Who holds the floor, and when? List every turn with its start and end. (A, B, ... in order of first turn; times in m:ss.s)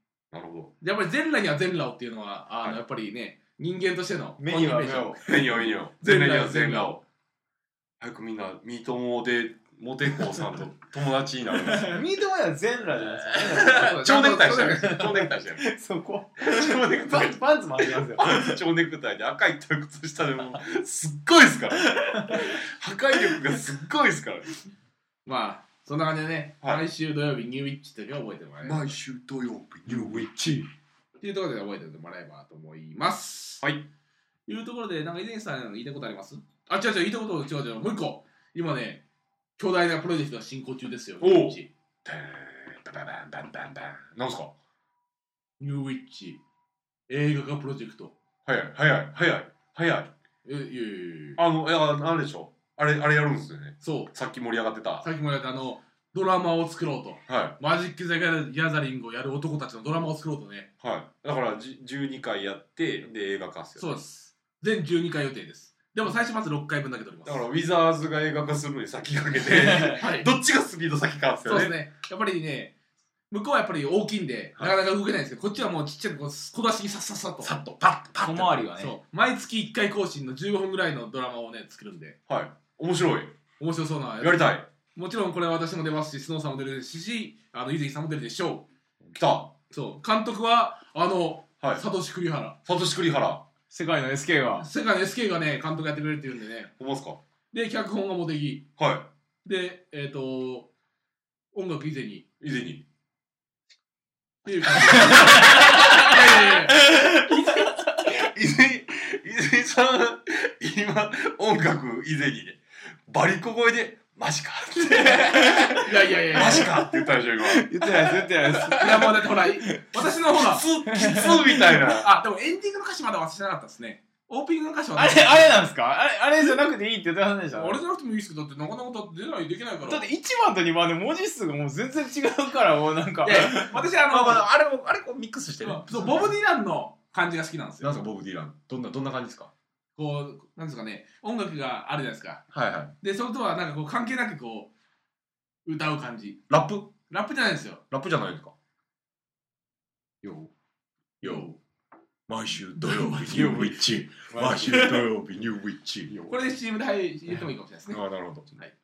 0:00.3-0:00.7 A
0:00.8-0:06.9 B
0:04.4-0:05.2 C
0:05.2-0:07.0 A
0:08.0-0:12.0 A
0:11.9-0:14.1 C
0:13.4-0:15.3 B
0:13.7-0:15.7 A
0:15.5-0:18.6 C
0:16.4-0:17.4 A
0:18.1-0:24.5 A
0:22.0-0:22.5 C
0:25.2-0:28.9 B
0:28.6-0:30.7 A
0:31.2-0:33.6 B
0:33.6-0:33.9 A
0:34.5-0:39.0 B
0:39.6-0:41.7 B
0:41.2-0:44.5 A
0:45.6-0:46.4 B
0:47.1-0:48.1 B
0:48.4-0:50.1 A
0:50.4-0:51.4 B
0:51.4-0:55.1 A
0:53.8-0:54.1 B
0:55.0-1:00.7 B
0:57.3-0:57.6 A
1:00.8-1:04.0 A
1:03.8-1:07.4 B
1:07.2-1:11.8 A
1:09.5-1:09.9 C
1:09.8-1:10.3 B
1:11.4-1:12.7 B
1:13.3-1:17.5 B
1:17.4-1:18.7 A
1:18.2-1:19.0 C
1:18.8-1:22.2 B
1:22.3-1:23.4 A
1:23.6-1:28.6 B
1:24.2-1:24.7 A
1:29.1-1:29.5 A
1:29.7-1:32.6 B
1:32.6-1:33.4 A
1:33.7-1:34.7 C
1:34.6-1:36.7 B
1:36.8-1:37.2 A
1:37.5-1:38.7 B
1:38.8-1:39.1 A
1:39.4-1:40.7 B
1:41.5-1:42.3 B
1:42.4-1:42.8 A
1:44.4-1:47.6 B
1:44.7-1:57.7 A
1:47.0-1:48.0 C
1:54.9-1:56.7 B
1:56.4-1:56.7 C
1:57.5-1:59.8 C
1:58.6-2:00.7 B
2:00.4-2:02.1 A
2:00.8-2:01.5 C
2:01.8-2:05.6 B
2:05.0-2:07.8 C
2:07.5-2:10.1 B
2:09.8-2:13.8 C
2:13.2-2:14.5 B
2:14.1-2:16.3 A
2:15.6-2:18.0 B
2:17.8-2:19.5 A
2:20.0-2:22.5 B
2:22.5-2:22.9 A
2:23.0-2:24.7 B
2:25.6-2:26.4 B
2:26.5-2:26.9 A
2:27.1-2:27.8 B
2:27.9-2:28.5 A
2:30.2-2:30.5 C
2:31.2-2:31.5 B
2:32.3-2:36.1 A
2:32.8-2:33.6 B
2:33.2-2:34.9 C
2:34.6-2:35.0 B
2:36.1-2:36.4 C
2:36.3-2:38.0 B
2:37.9-2:38.5 A